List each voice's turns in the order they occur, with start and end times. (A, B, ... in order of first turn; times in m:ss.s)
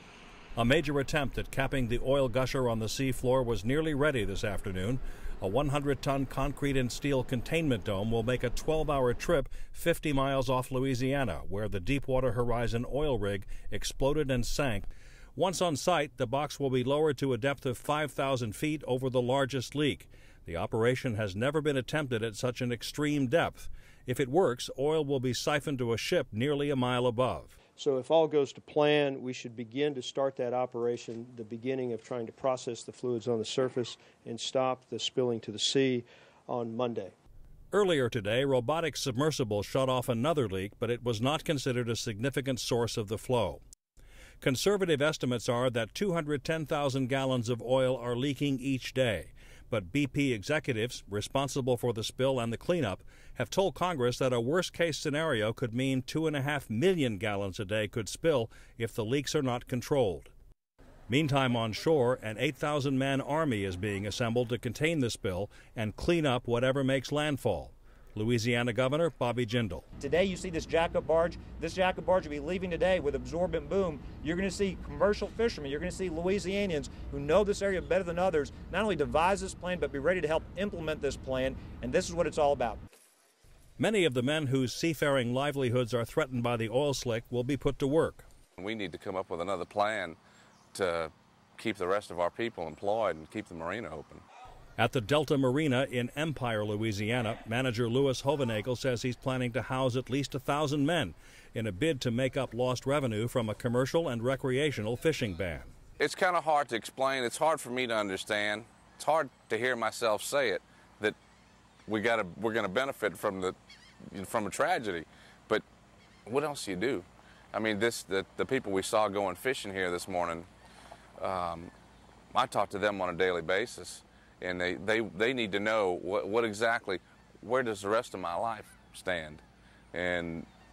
0:00.6-0:27.5 A
0:27.8-0:37.1 B
0:37.7-0:43.6 A
0:44.4-1:00.3 A
1:01.1-1:09.8 A
1:10.0-1:22.8 C
1:23.8-1:28.2 A
1:28.6-1:30.2 D
1:30.7-1:34.2 D
1:34.8-1:45.7 A
1:46.0-1:51.2 D
1:51.9-1:53.6 D
1:54.1-1:55.6 D
1:56.3-2:00.5 D
2:01.2-2:01.7 D
2:02.3-2:09.4 D
2:09.9-2:10.5 D